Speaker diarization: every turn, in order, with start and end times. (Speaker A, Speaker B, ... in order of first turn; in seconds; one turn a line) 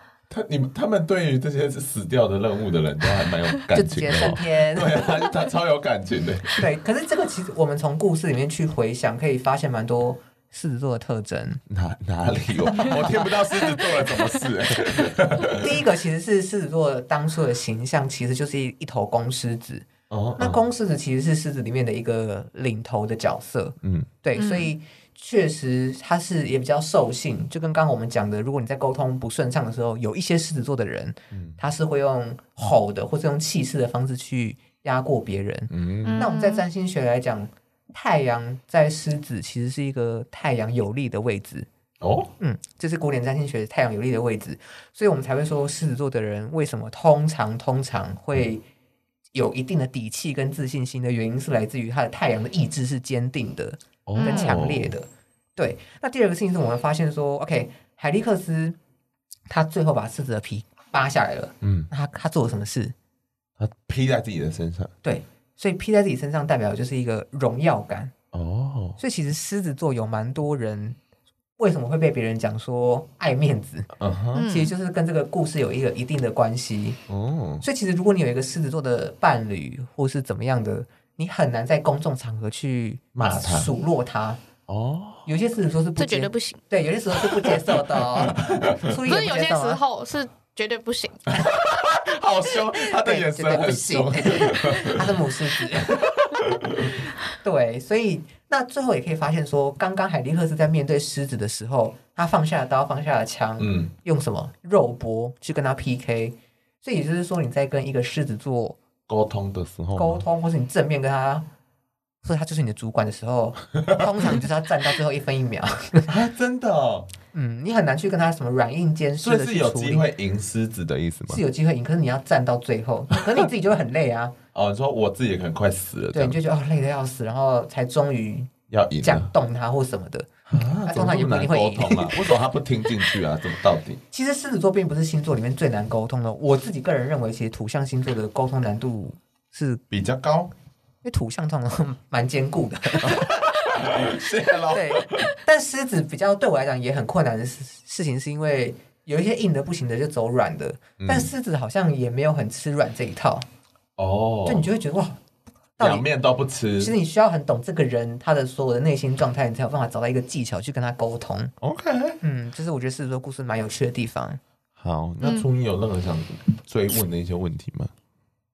Speaker A: 0.3-6.7
Speaker B: 3.7-5.1
Speaker B: 6.5-11.6
Speaker A: 11.7-15.8
Speaker B: 12.8-13.2
Speaker B: 15.5-19.9
Speaker A: 20.1-20.6
Speaker B: 20.4-41.7
Speaker A: 23.8-24.1
Speaker C: 24.4-24.7
Speaker A: 31.3-31.6
Speaker A: 35.7-36.2
Speaker C: 36.0-36.6
Speaker A: 42.0-42.3
Speaker B: 42.4-48.6
Speaker B: 49.3-58.8
Speaker A: 54.1-55.0
Speaker C: 54.1-54.6
Speaker B: 59.5-62.9
Speaker A: 61.6-61.9
Speaker A: 63.6-64.9
Speaker B: 65.0-68.1
Speaker A: 68.3-69.0
Speaker B: 69.0-71.0
Speaker B: 71.6-77.0
Speaker A: 74.0-74.5
Speaker C: 74.3-74.7
Speaker A: 77.1-77.6
Speaker B: 77.6-84.4
Speaker A: 83.1-83.7
Speaker A: 84.7-85.3
Speaker B: 85.2-89.8
Speaker C: 86.0-86.6
Speaker A: 87.1-89.0
Speaker C: 89.0-91.3
Speaker A: 91.3-95.3
Speaker B: 92.8-96.2
Speaker A: 96.1-97.0
Speaker B: 97.4-108.8
Speaker A: 103.6-103.9
Speaker A: 109.1-110.2
Speaker B: 110.0-111.5
Speaker B: 112.2-116.1
Speaker A: 113.8-114.2
Speaker A: 116.1-117.1
Speaker B: 117.3-120.1
Speaker A: 119.2-121.4
Speaker B: 121.3-124.3
Speaker A: 124.5-126.4
Speaker B: 126.1-128.5
Speaker A: 128.7-129.3
Speaker B: 129.0-130.3
Speaker A: 130.5-134.0
Speaker B: 130.8-132.2
Speaker B: 134.1-139.8
Speaker A: 139.9-140.5
Speaker B: 141.0-143.3
Speaker A: 143.0-145.3
Speaker B: 144.7-153.4
Speaker A: 151.0-151.3
Speaker A: 154.0-154.7
Speaker B: 154.4-155.2
Speaker B: 155.8-156.1
Speaker A: 155.8-156.9
Speaker B: 156.8-161.5
Speaker A: 161.6-162.2
Speaker B: 162.2-164.4
Speaker A: 164.8-167.9